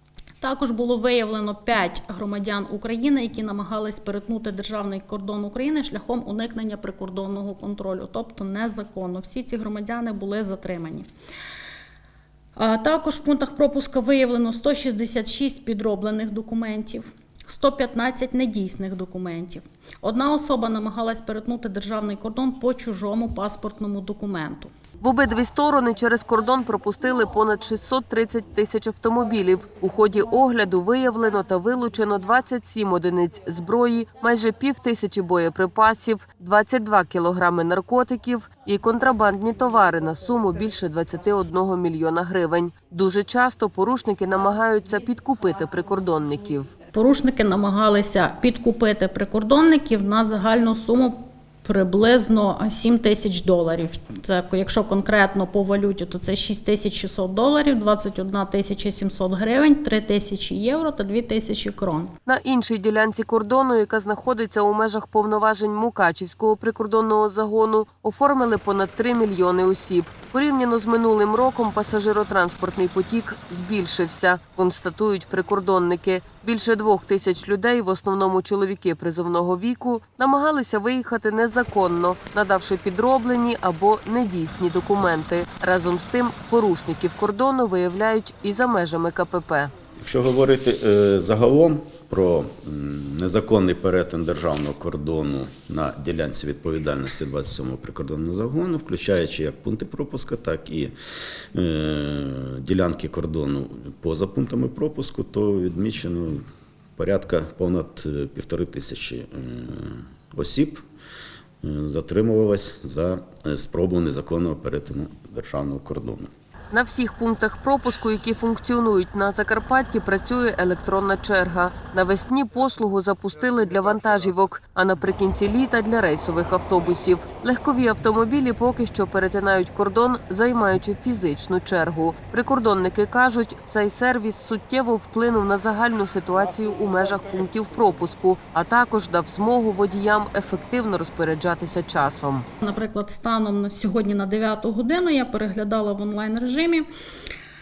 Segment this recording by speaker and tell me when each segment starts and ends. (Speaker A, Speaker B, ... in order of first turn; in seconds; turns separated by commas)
Speaker A: 0.4-11.1, Speaker A: 12.6-24.7, Speaker B: 25.0-46.7, Speaker A: 46.9-62.1, Speaker B: 62.3-89.7, Speaker C: 90.0-101.0, Speaker C: 101.5-106.4, Speaker C: 107.0-110.8, Speaker C: 111.6-116.3, Speaker B: 116.7-142.5, Speaker A: 142.6-146.9